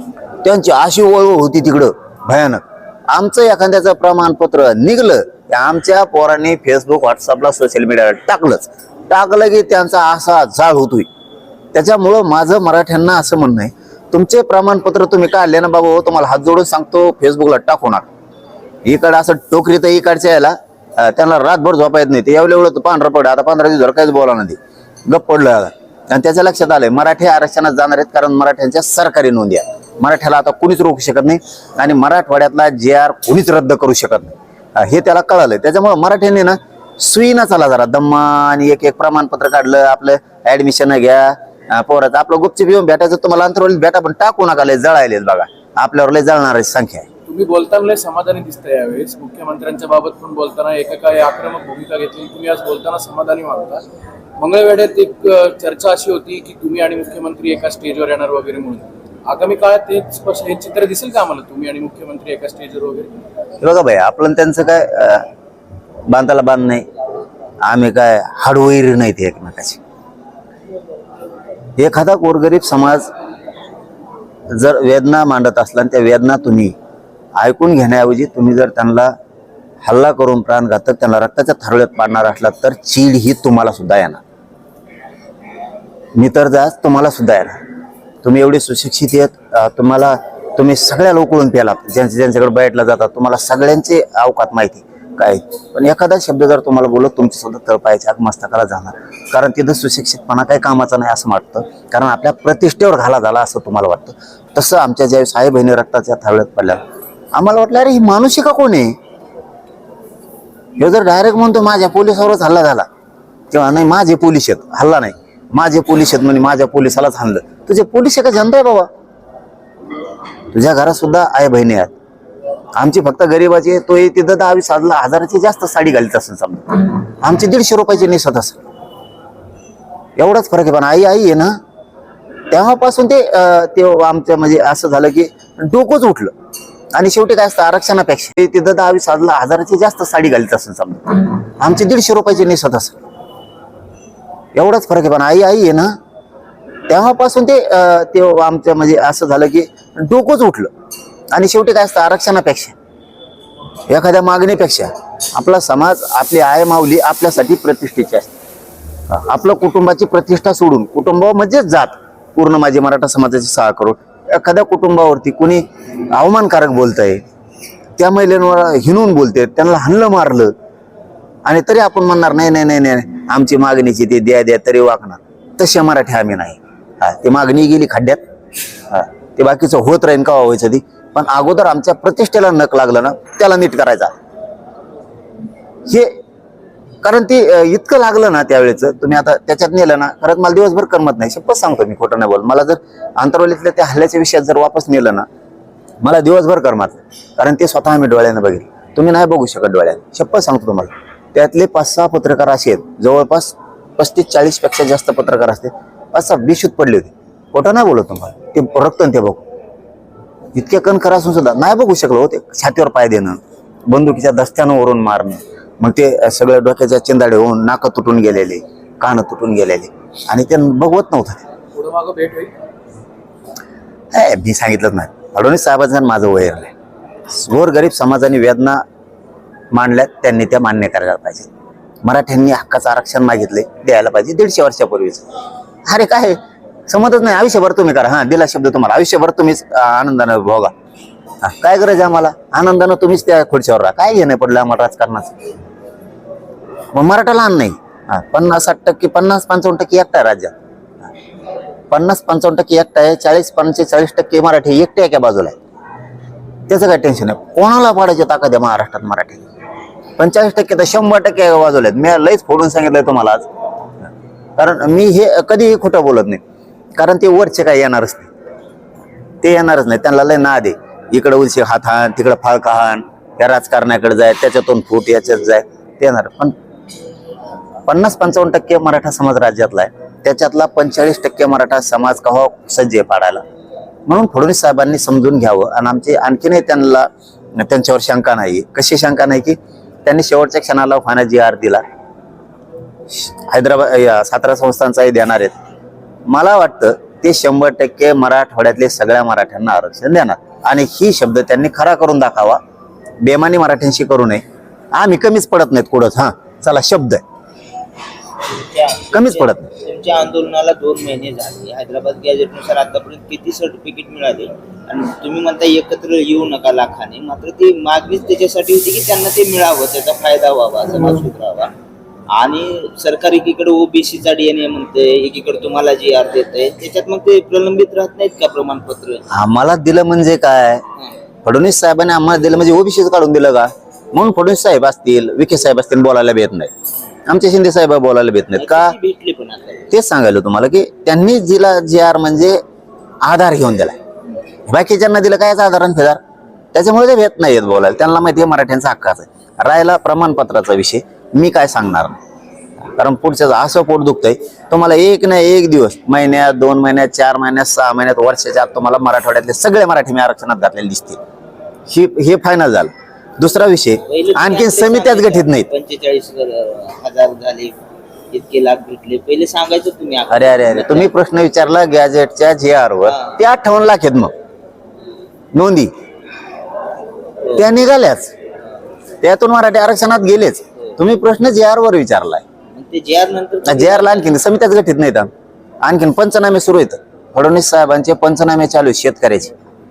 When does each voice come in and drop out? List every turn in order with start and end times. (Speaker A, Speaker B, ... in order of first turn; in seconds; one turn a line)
Speaker A: 0.4-11.1
Speaker A: 11.7-18.1
Speaker A: 18.9-47.1
Speaker B: 47.3-53.8
Speaker B: 54.4-63.1
Speaker A: 63.6-65.3
Speaker A: 66.1-66.9
Speaker A: 67.7-69.8
Speaker A: 71.8-73.1
Speaker A: 74.5-76.7
Speaker A: 77.4-79.1
Speaker A: 79.8-84.2
Speaker A: 86.2-87.6
Speaker A: 88.2-106.8
Speaker A: 107.3-109.0
Speaker A: 110.8-112.9
Speaker A: 113.5-118.9
Speaker A: 120.5-121.9
Speaker A: 122.8-128.6
Speaker A: 130.2-131.6
Speaker A: 132.5-136.3
Speaker A: 136.9-143.0
Speaker A: 144.6-145.9
Speaker A: 146.9-150.7
Speaker A: 151.3-152.8
Speaker A: 153.9-158.3
Speaker A: 159.1-167.2
Speaker A: 168.0-170.5
Speaker A: 171.4-178.2
Speaker A: 178.9-184.2
Speaker A: 185.9-186.2
Speaker A: 187.0-195.3
Speaker A: 196.0-209.4
Speaker A: 210.5-221.4
Speaker B: 221.7-222.5
Speaker A: 224.1-226.7
Speaker A: 227.3-228.8
Speaker A: 229.7-231.5
Speaker A: 232.0-235.3
Speaker A: 235.9-240.7
Speaker A: 241.4-245.4
Speaker A: 246.9-251.1
Speaker A: 251.9-255.6
Speaker A: 256.7-259.4
Speaker A: 260.2-263.5
Speaker A: 264.6-266.4
Speaker A: 267.0-268.3
Speaker A: 269.4-276.6
Speaker A: 277.9-283.4
Speaker A: 284.1-291.8
Speaker A: 293.1-295.6
Speaker A: 296.3-302.6
Speaker A: 303.2-307.2
Speaker C: 308.6-321.7
Speaker A: 309.1-309.7
Speaker C: 322.4-329.2
Speaker A: 329.3-330.8
Speaker A: 331.4-336.7
Speaker A: 337.3-338.9
Speaker C: 338.6-339.9
Speaker A: 339.9-342.6
Speaker A: 343.2-344.0
Speaker A: 344.7-346.2
Speaker A: 346.7-352.2
Speaker A: 352.9-361.2
Speaker A: 361.9-365.7
Speaker C: 364.1-367.8
Speaker C: 368.3-371.1
Speaker A: 370.3-374.3
Speaker C: 373.1-373.4
Speaker A: 375.5-375.9
Speaker A: 377.6-378.3
Speaker A: 379.2-382.4
Speaker C: 382.8-384.3
Speaker A: 383.7-385.3
Speaker A: 385.8-389.5